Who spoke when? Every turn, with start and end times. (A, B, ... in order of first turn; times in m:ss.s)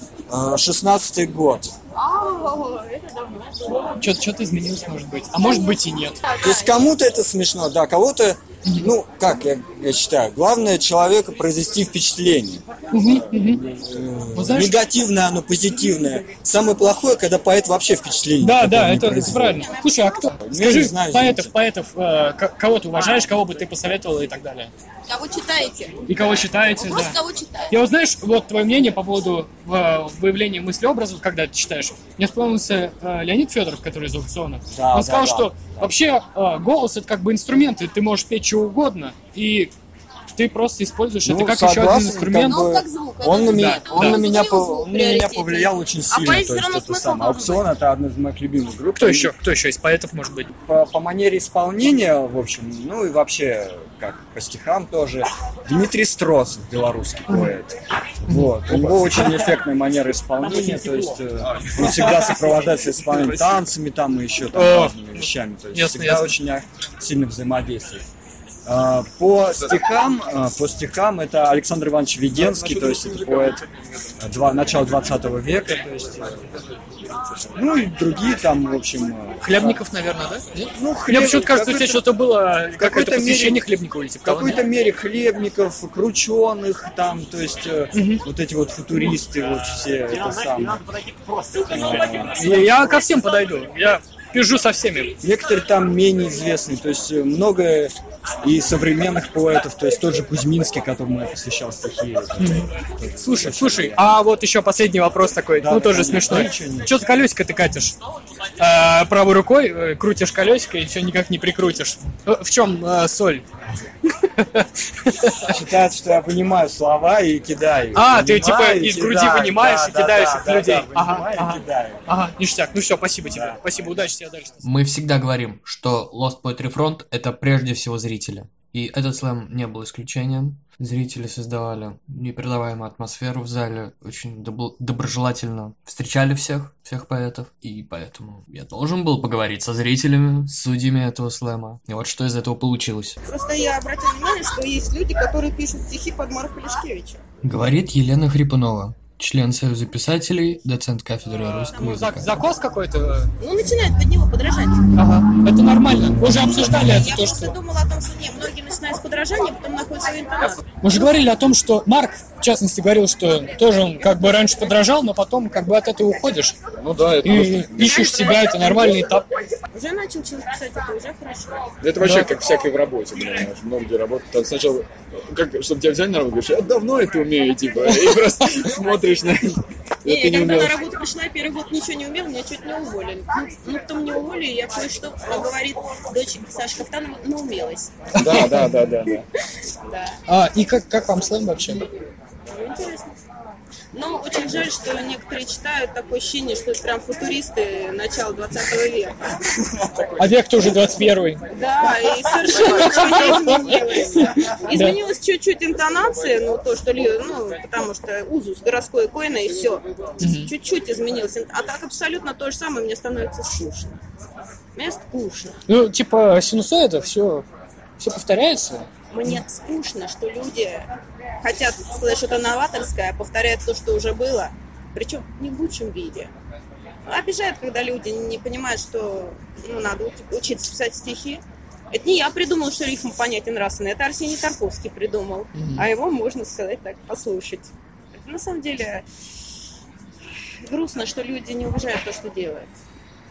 0:00.3-0:01.7 A
0:02.0-0:03.0 B
0:04.0-0:06.2 C
0:06.4-0:12.6 A
0:12.9-0:13.6 C
0:13.6-0:19.7 A
0:14.4-0:14.8 C
0:18.4-0:24.7 C
0:19.5-0:20.3 B
0:20.4-0:21.5 A
0:25.1-0:25.5 B
0:25.2-0:25.9 D
0:26.1-0:27.2 C
0:26.8-0:27.6 D
0:27.7-0:39.7 C
0:34.7-0:35.9 A
0:40.4-0:42.6 C
0:41.2-0:49.4 A
0:42.4-0:44.3 D
0:43.5-0:44.2 C
0:43.9-0:47.6 B
0:49.0-0:50.5 C
0:50.6-1:08.0 A
0:58.3-0:59.2 C
1:04.5-1:06.4 C
1:08.6-1:13.6 A
1:14.2-1:16.4 A
1:17.5-1:19.8 A
1:19.4-1:24.6 C
1:20.7-1:22.1 A
1:22.8-1:23.7 A
1:24.2-1:30.8 A
1:27.9-1:28.2 C
1:31.7-1:32.7 A
1:32.4-1:35.1 C
1:35.2-1:44.2 A
1:42.4-1:48.0 C
1:45.6-1:46.9 A
1:48.6-1:53.4 C
1:54.4-1:55.5 C
1:55.4-2:02.0 A
1:58.0-2:04.6 C
2:03.2-2:03.6 A
2:04.6-2:23.2 E
2:23.2-2:27.2 B
2:27.4-2:32.3 E
2:31.6-2:33.3 C
2:33.4-2:34.8 B
2:35.0-2:37.6 C
2:36.7-2:40.6 B
2:40.8-2:46.6 C
2:46.8-2:48.0 F
2:47.2-2:49.2 C
2:47.8-2:48.9 B
2:49.7-2:51.7 B
2:51.8-3:00.8 F
2:52.0-2:52.3 C
3:00.0-3:08.1 B
3:08.1-3:08.7 C
3:08.1-3:09.2 F
3:09.9-3:10.2 B
3:10.3-3:11.8 C
3:12.5-3:13.1 B
3:13.9-3:19.2 B
3:20.2-3:21.4 C
3:21.5-3:34.0 B
3:22.4-3:25.0 C
3:30.2-3:30.5 C
3:34.8-3:35.6 B
3:35.7-3:37.5 C
3:38.0-3:39.4 C
3:39.1-3:40.9 B
3:41.4-3:46.3 B
3:47.0-3:59.0 B
3:55.5-3:55.9 C
4:00.6-4:02.7 B